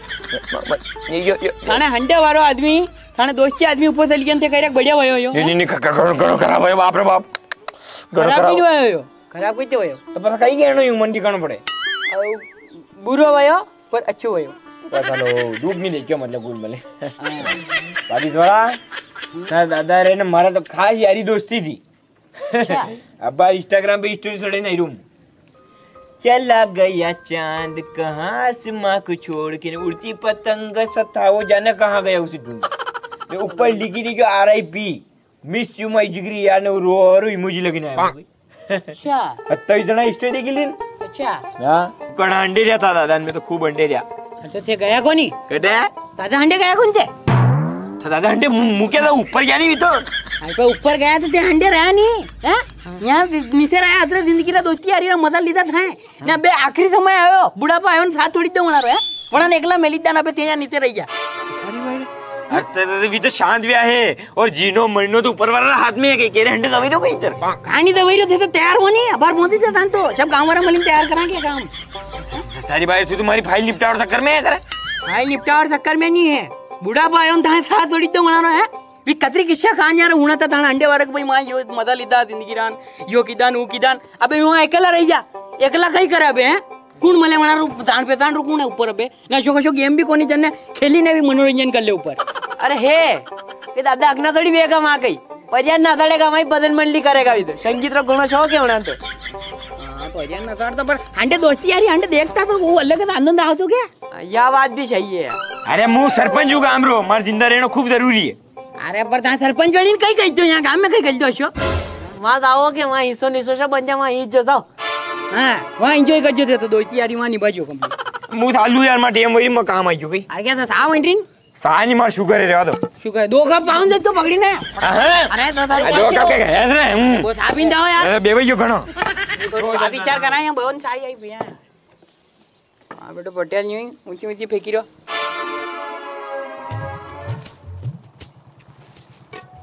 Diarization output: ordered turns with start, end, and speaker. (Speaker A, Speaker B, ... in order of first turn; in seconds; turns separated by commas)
Speaker A: 0.3-1.8, Speaker B: 1.6-5.5, Speaker A: 5.3-7.3, Speaker A: 8.1-8.6, Speaker B: 8.1-10.0, Speaker A: 10.1-11.6, Speaker B: 12.1-14.6, Speaker A: 14.9-18.8, Speaker B: 17.2-17.6, Speaker A: 19.4-21.8, Speaker A: 22.4-25.0, Speaker B: 22.6-22.9, Speaker A: 26.2-32.7, Speaker A: 33.3-38.9, Speaker B: 38.9-39.4, Speaker A: 39.5-40.8, Speaker B: 41.0-41.5, Speaker A: 41.6-44.0, Speaker B: 44.4-45.4, Speaker A: 45.5-45.9, Speaker B: 46.1-47.1, Speaker A: 48.0-50.1, Speaker B: 50.4-61.1, Speaker A: 61.5-67.4, Speaker B: 67.6-71.7, Speaker A: 72.3-74.6, Speaker B: 75.0-92.2, Speaker C: 92.6-99.0, Speaker B: 99.8-103.9, Speaker C: 104.1-105.4, Speaker A: 105.7-108.4, Speaker B: 108.8-111.5, Speaker C: 112.0-114.6, Speaker B: 115.3-117.9, Speaker A: 118.3-120.3, Speaker B: 120.3-121.2, Speaker A: 121.6-122.8, Speaker B: 123.0-126.4, Speaker A: 124.8-128.9, Speaker B: 127.1-128.2, Speaker B: 129.4-131.6, Speaker A: 129.5-130.4, Speaker B: 133.0-134.9